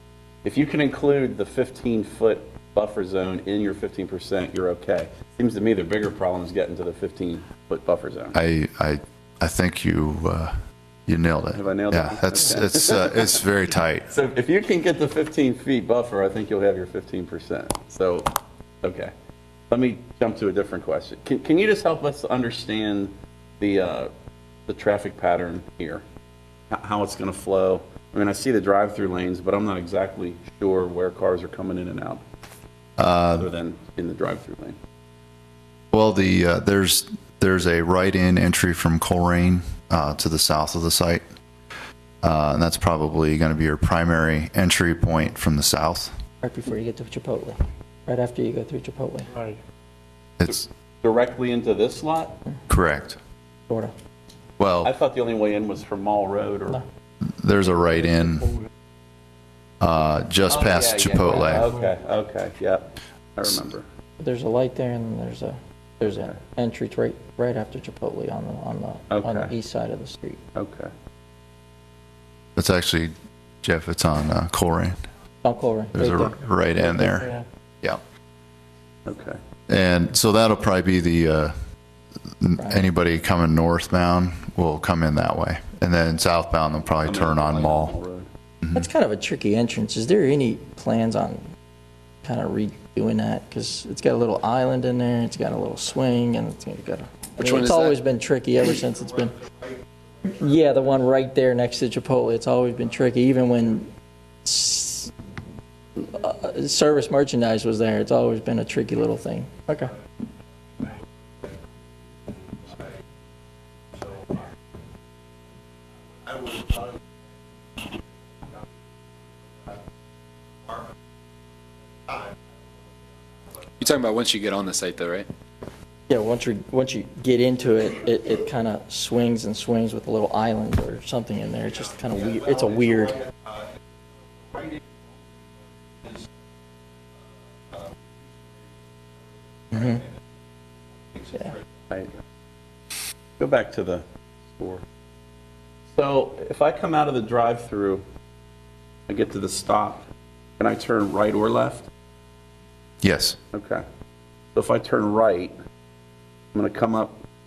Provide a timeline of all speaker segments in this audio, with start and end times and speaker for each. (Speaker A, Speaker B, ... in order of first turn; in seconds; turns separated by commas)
Speaker A: 0.4-8.4, Speaker B: 8.3-10.6, Speaker B: 11.1-14.1, Speaker A: 11.5-13.4, Speaker A: 14.1-18.3, Speaker A: 18.8-19.1, Speaker A: 19.7-24.1, Speaker A: 24.7-26.0, Speaker A: 26.7-32.2, Speaker B: 33.0-33.5, Speaker A: 33.4-34.8, Speaker B: 35.9-41.2, Speaker B: 42.2-46.1, Speaker C: 46.4-49.3, Speaker B: 50.4-50.7, Speaker A: 50.5-52.4, Speaker B: 52.7-53.2, Speaker B: 54.6-54.9, Speaker A: 54.8-56.8, Speaker B: 57.2-58.5, Speaker B: 59.8-61.7, Speaker A: 60.5-63.9, Speaker C: 64.2-70.4, Speaker A: 69.1-69.5, Speaker A: 70.5-70.9, Speaker B: 72.6-75.0, Speaker C: 75.4-76.4, Speaker B: 75.9-78.0, Speaker A: 79.1-79.4, Speaker B: 79.7-81.6, Speaker B: 82.4-88.0, Speaker C: 82.6-82.8, Speaker A: 87.0-88.3, Speaker C: 88.7-91.5, Speaker C: 92.2-99.4, Speaker D: 97.4-98.0, Speaker C: 100.2-103.9, Speaker C: 104.5-105.1, Speaker C: 106.0-109.9, Speaker D: 123.8-125.3, Speaker C: 126.1-133.2, Speaker C: 139.7-140.0, Speaker A: 143.4-144.1, Speaker A: 144.6-144.8, Speaker A: 145.9-148.1, Speaker A: 149.1-150.0, Speaker A: 150.6-151.9, Speaker B: 153.0-153.4, Speaker A: 153.5-153.8, Speaker A: 154.6-155.6, Speaker A: 156.5-157.2